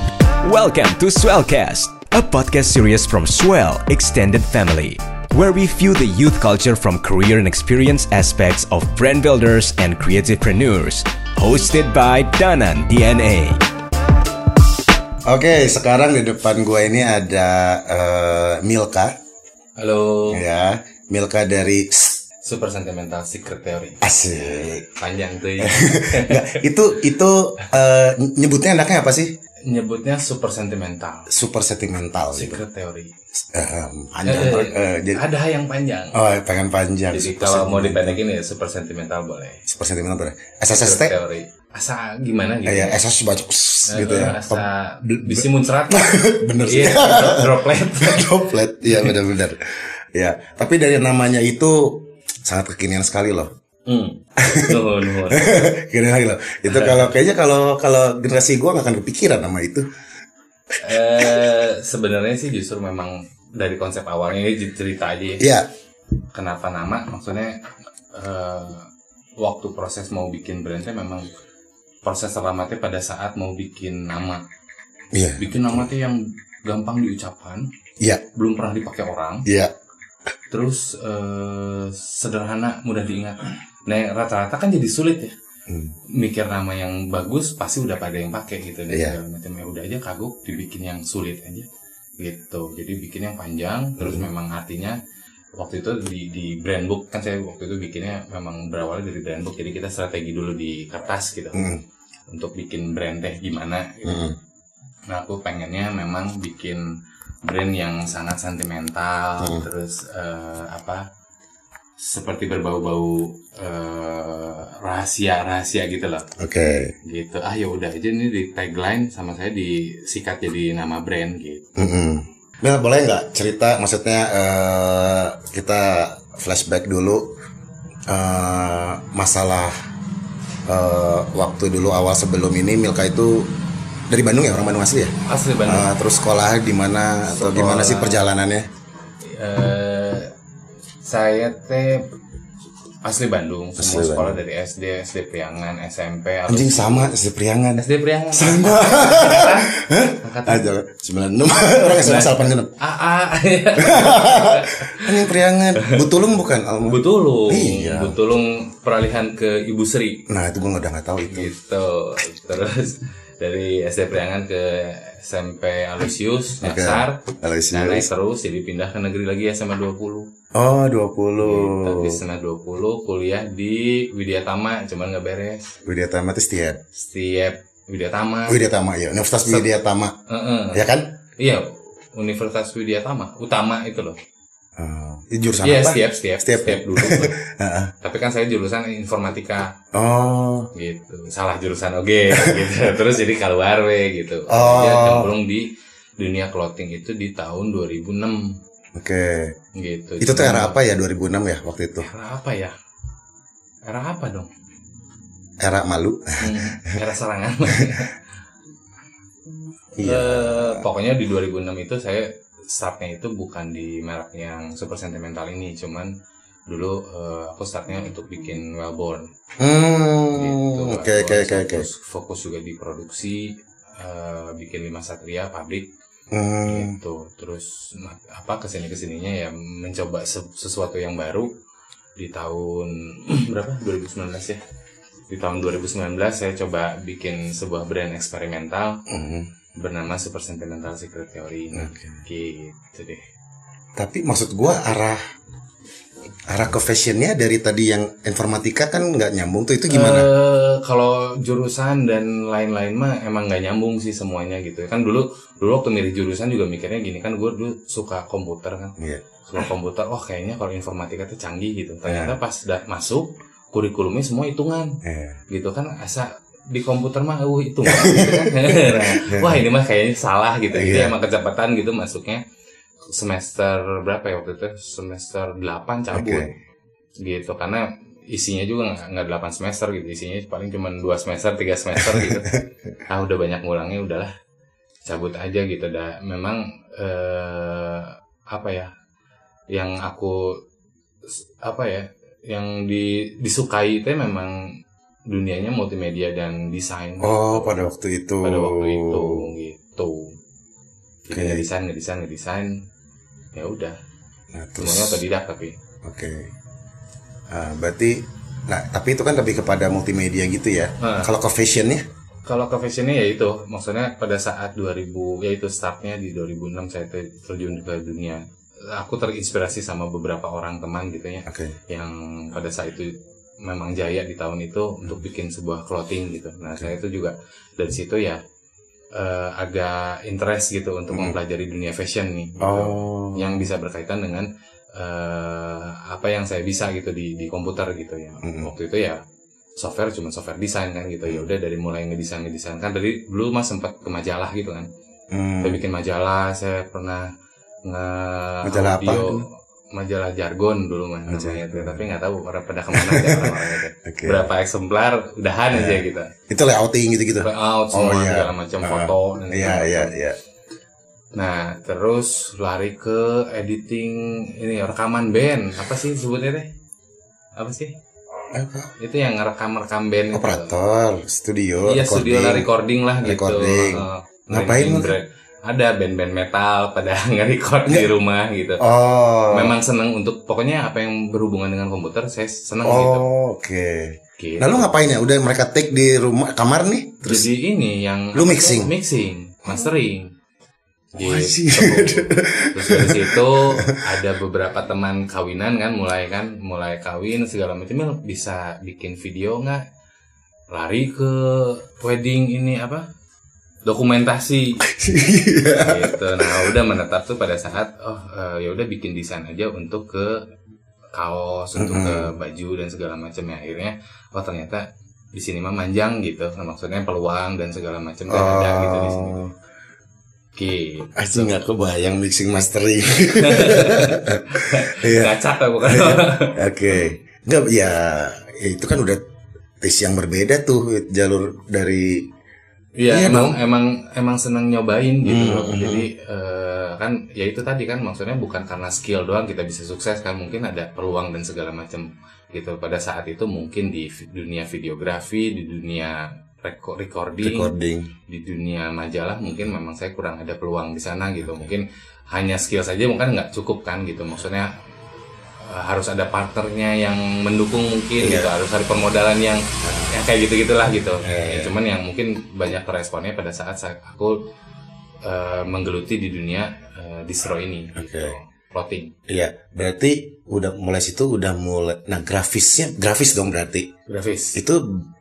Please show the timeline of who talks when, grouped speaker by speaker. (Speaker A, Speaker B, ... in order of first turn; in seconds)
Speaker A: 0.4-13.6
Speaker B: 15.2-19.1, 20.3-22.2, 24.0-24.9, 25.6-29.3, 31.3-32.6, 33.4-35.2, 36.1-38.2, 39.6-41.2, 42.6-53.5, 54.4-54.8, 55.3-59.9, 60.7-61.5, 65.4-65.7, 75.1-75.9, 79.4-79.7, 85.7-85.9, 88.9-89.2, 94.0-94.3, 101.5-101.8, 104.0-104.3, 116.4-116.9, 121.8-127.3, 128.1-129.7, 130.7-133.5, 134.1-135.1, 135.7-138.7, 143.8-144.4, 146.5-152.7, 153.8-158.2, 160.3-161.5, 166.6-168.1, 170.5-172.2, 175.8-176.8, 178.5-180.2, 180.7-181.1, 184.8-187.9, 189.9-190.7, 194.5-195.3, 198.9-199.5, 200.2-202.1, 205.6-207.0, 210.0-210.8, 219.6-221.8, 226.3-226.9, 239.1-239.5, 241.7-242.2, 243.9-245.2, 246.4-250.3, 259.0-259.2, 262.1-262.3, 265.0-265.4, 267.8-269.6, 270.7-271.1, 276.1-276.5, 281.9-282.9, 297.2-299.4, 301.3-301.6, 304.5-305.2, 306.0-306.5, 307.5-312.1, 321.4-321.7, 332.6-333.6, 338.4-338.7, 345.3-345.8, 348.6-349.4, 351.3-352.1, 352.9-354.4, 355.7-360.4, 368.5-368.9, 370.3-372.7, 373.2-375.1, 378.8-379.8, 382.8-387.5, 388.3-388.9, 391.2-394.0, 404.8-406.8, 411.8-412.3, 418.3-419.5, 421.1-429.2, 429.8-432.3, 433.1-433.6, 435.2-436.1, 447.4-448.1, 451.4-451.7, 458.2-458.5, 459.8-460.1, 461.2-461.7, 467.9-468.3, 469.3-473.9, 474.5-475.1
Speaker C: 19.8-20.4, 22.4-26.6, 29.7-31.3, 32.3-33.1, 34.2-36.2, 37.1-39.6, 40.7-43.0, 43.9-48.3, 53.9-55.6, 56.7-57.1, 60.8-65.4, 66.3-67.6, 68.1-68.9, 69.4-71.3, 72.0-74.4, 75.4-77.7, 78.3-79.4, 80.5-85.3, 86.1-91.7, 92.2-95.0, 95.5-101.7, 102.3-104.2, 105.1-106.8, 107.4-111.0, 112.0-116.3, 117.0-121.6, 135.3-135.9, 137.2-138.2, 139.2-140.3, 141.0-142.1, 143.0-147.1, 147.8-149.7, 150.2-150.6, 151.8-155.3, 156.9-160.2, 161.2-167.2, 167.7-170.3, 171.4-175.7, 176.9-178.6, 180.3-180.8, 181.4-184.2, 185.6-187.3, 188.0-189.7, 190.7-195.7, 196.2-198.5, 199.8-200.8, 202.0-202.7, 203.9-204.5, 206.4-208.1, 210.0-216.1, 216.7-219.3, 220.3-225.9, 226.7-231.5, 232.2-234.6, 235.3-239.0, 239.8-243.2, 249.9-265.0, 265.5-272.4, 273.1-276.5, 277.2-282.5, 283.1-284.3, 285.1-288.9, 289.7-290.6, 291.3-294.6, 295.3-297.8, 298.4-300.3, 301.3-302.7, 303.5-303.9, 304.8-305.8, 311.0-311.3, 312.4-318.4, 318.9-328.4, 329.1-339.2, 339.8-344.9, 345.6-347.3, 347.9-356.3, 357.4-360.1, 361.4-366.6, 367.6-367.9, 369.0-370.7, 371.8-378.8, 379.5-383.2, 384.4-384.9, 387.2-390.3, 391.1-399.8, 400.7-403.0, 403.9-404.8, 405.6-410.4, 411.1-419.5, 420.6-421.5, 423.4-427.1, 433.0-447.7, 448.3-454.7, 455.6-464.4, 465.2-469.1, 474.1-474.6